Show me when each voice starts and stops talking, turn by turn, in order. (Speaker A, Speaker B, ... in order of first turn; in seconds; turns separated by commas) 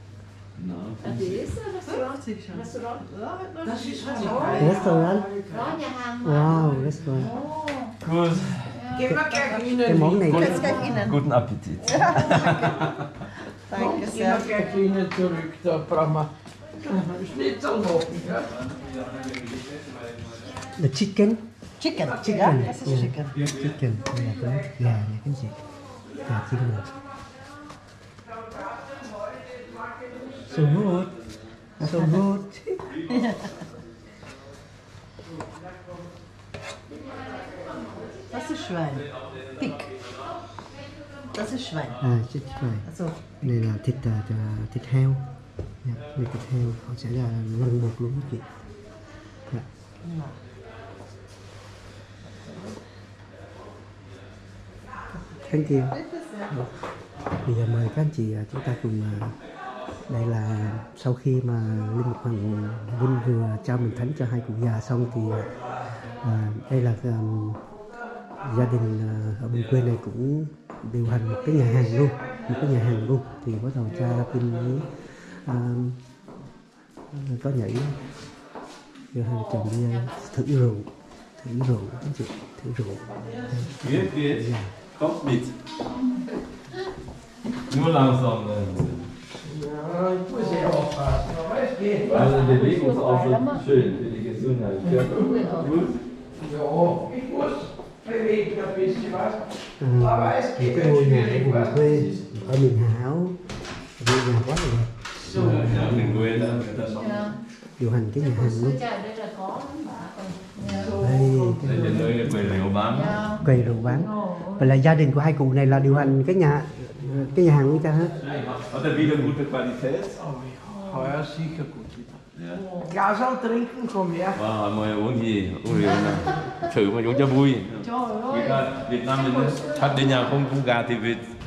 Speaker A: 0.6-1.5, Speaker B: 1.0-2.7, Speaker C: 1.8-5.3, Speaker D: 3.6-5.8, Speaker B: 4.2-4.8, Speaker E: 4.6-5.3, Speaker B: 5.5-8.0, Speaker E: 6.2-7.3, Speaker A: 8.0-8.8, Speaker B: 8.7-9.7, Speaker D: 8.9-11.0, Speaker E: 9.8-11.0, Speaker C: 10.3-11.2, Speaker A: 10.3-13.1, Speaker B: 10.4-11.0, Speaker C: 11.8-13.0, Speaker C: 13.7-14.5, Speaker D: 13.7-18.5, Speaker A: 18.3-20.8, Speaker E: 20.8-21.4, Speaker C: 21.8-23.4, Speaker D: 22.0-22.8, Speaker E: 22.0-25.6, Speaker A: 23.3-23.8, Speaker D: 23.9-25.0, Speaker D: 26.1-27.1, Speaker E: 26.3-26.9, Speaker D: 28.2-31.0, Speaker E: 30.5-31.1, Speaker A: 30.5-31.4, Speaker C: 31.8-32.2, Speaker E: 31.8-32.9, Speaker A: 32.9-33.8, Speaker C: 33.1-33.7, Speaker D: 35.3-36.1, Speaker D: 36.9-38.1, Speaker B: 36.9-38.5, Speaker C: 38.3-39.9, Speaker A: 38.8-40.4, Speaker B: 40.9-41.3, Speaker C: 41.3-42.0, Speaker E: 42.0-42.9, Speaker C: 42.8-43.3, Speaker E: 43.4-45.3, Speaker E: 45.8-48.5, Speaker C: 50.0-50.4, Speaker C: 52.2-52.8, Speaker E: 55.3-56.0, Speaker C: 55.8-56.6, Speaker E: 57.4-59.4, Speaker E: 60.1-65.5, Speaker E: 66.2-67.6, Speaker D: 68.2-68.6, Speaker E: 68.4-76.0, Speaker A: 69.5-69.9, Speaker D: 71.3-73.0, Speaker D: 73.8-74.9, Speaker E: 77.1-78.0, Speaker E: 79.1-84.7, Speaker B: 79.5-79.7, Speaker D: 83.1-83.8, Speaker A: 83.8-85.6, Speaker A: 87.7-89.1, Speaker D: 89.4-92.3, Speaker B: 90.4-90.7, Speaker A: 92.1-96.0, Speaker B: 92.1-93.7, Speaker B: 94.8-95.9, Speaker D: 95.0-95.3, Speaker D: 96.4-102.5, Speaker E: 99.8-103.4, Speaker E: 104.0-106.9, Speaker D: 105.2-106.1, Speaker A: 105.3-107.3, Speaker B: 106.8-107.4, Speaker E: 107.8-108.8, Speaker B: 108.2-111.0, Speaker D: 110.6-112.2, Speaker E: 111.0-112.6, Speaker A: 111.6-113.6, Speaker B: 112.9-114.8, Speaker E: 113.4-118.1, Speaker A: 118.2-120.2, Speaker E: 119.0-119.3, Speaker D: 120.1-122.2, Speaker B: 120.7-121.2, Speaker A: 122.3-122.6, Speaker B: 122.5-123.0, Speaker D: 122.8-124.4, Speaker A: 124.3-131.3, Speaker B: 125.9-126.5, Speaker B: 127.8-130.4